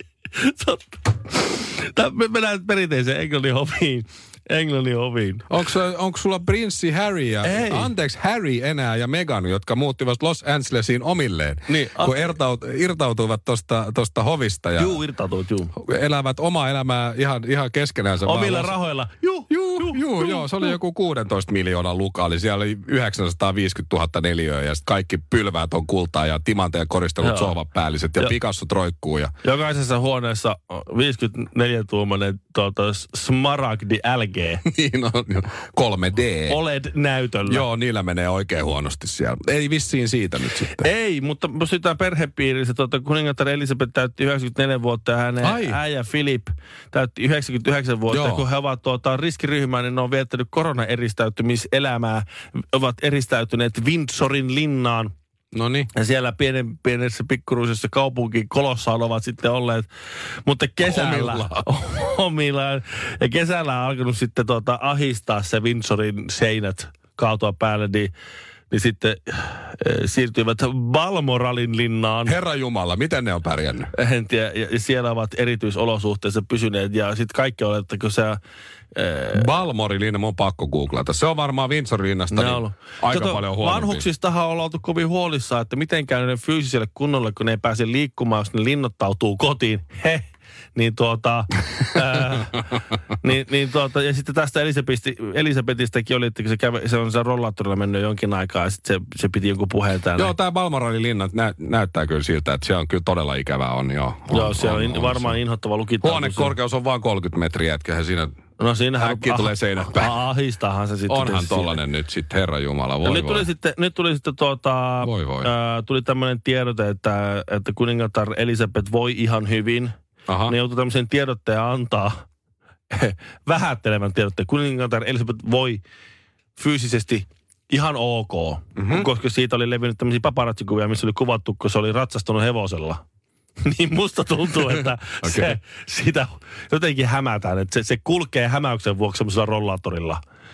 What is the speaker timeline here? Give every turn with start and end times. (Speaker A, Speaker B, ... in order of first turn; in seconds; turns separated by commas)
Speaker A: 0.4-5.5, Speaker B: 5.5-15.0, Speaker A: 7.4-7.9, Speaker A: 11.7-12.4, Speaker A: 14.8-15.8, Speaker B: 15.8-18.8, Speaker A: 18.2-20.8, Speaker B: 19.5-29.3, Speaker A: 27.2-27.6, Speaker A: 29.4-34.6, Speaker B: 34.6-36.6, Speaker A: 36.5-37.6, Speaker B: 37.5-40.9, Speaker A: 40.8-55.1, Speaker B: 45.4-45.8, Speaker B: 48.1-48.4, Speaker B: 55.5-55.9, Speaker A: 55.9-59.9, Speaker A: 60.5-68.1, Speaker B: 60.8-61.6, Speaker A: 68.7-72.4, Speaker B: 72.2-73.9, Speaker A: 73.9-78.4, Speaker A: 78.9-79.5, Speaker B: 79.3-84.0, Speaker A: 82.3-100.3, Speaker B: 100.2-105.4, Speaker A: 104.3-106.5, Speaker B: 106.0-108.3, Speaker A: 108.6-111.8, Speaker B: 109.0-110.2, Speaker B: 111.1-113.5, Speaker A: 113.0-119.9, Speaker B: 115.0-115.5, Speaker B: 120.3-120.5, Speaker A: 120.5-122.2, Speaker A: 122.9-125.8, Speaker A: 126.6-133.0, Speaker B: 128.8-129.1, Speaker A: 133.6-140.2, Speaker B: 134.8-135.5